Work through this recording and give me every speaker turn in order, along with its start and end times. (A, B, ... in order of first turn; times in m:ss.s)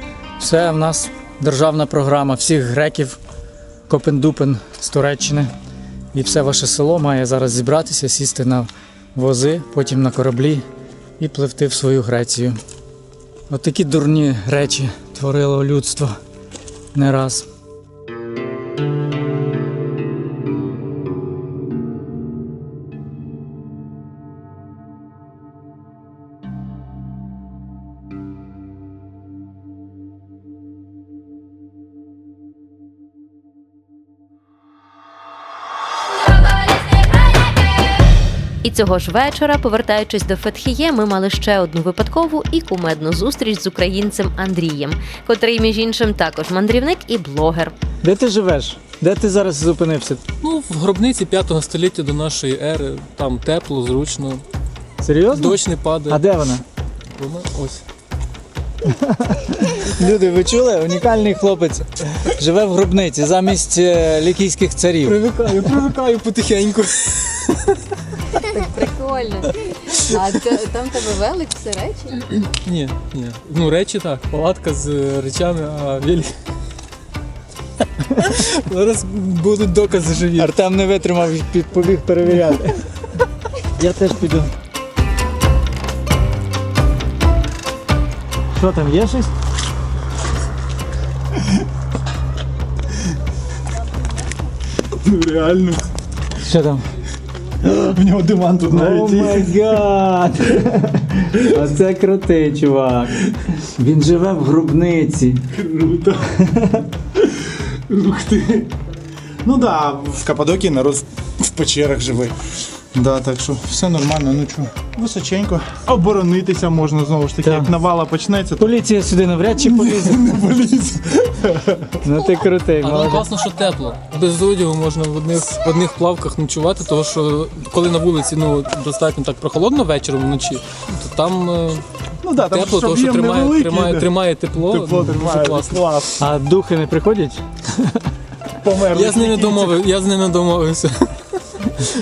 0:00.4-0:03.2 A
0:03.9-0:05.5 A
0:06.1-0:10.6 A
0:11.2-0:12.6 A
0:13.5-0:16.2 A
0:16.9-0:17.4 A
0:38.6-0:47.7 B
0:48.0-0:50.2 A
0:50.4-0:54.4 C
0:55.0-0:56.6 A
0:55.3-0:56.2 C
0:57.1-0:57.8 C
0:58.8-1:05.2 A
1:05.0-1:07.8 C
1:08.5-1:12.2 D
1:12.4-1:16.3 C
1:18.2-1:20.6 C
1:20.4-1:22.8 A
1:23.8-1:24.5 A
1:28.6-1:29.3 A
1:34.9-1:35.8 E
1:36.4-1:36.9 A
1:37.6-1:37.9 A
1:37.8-1:39.7 E
1:38.7-1:45.4 A
1:45.5-1:46.4 E
1:46.4-1:46.8 A
1:47.2-1:48.7 E
1:49.4-1:52.4 E
1:52.9-1:58.8 E
1:57.4-1:57.7 A
1:58.6-2:00.3 A
1:59.5-2:02.0 E
2:02.0-2:03.3 A
2:02.8-2:11.8 C
2:12.2-2:16.2 E
2:12.4-2:15.9 C
2:16.2-2:18.0 A
2:18.6-2:19.8 E
2:18.9-2:21.1 C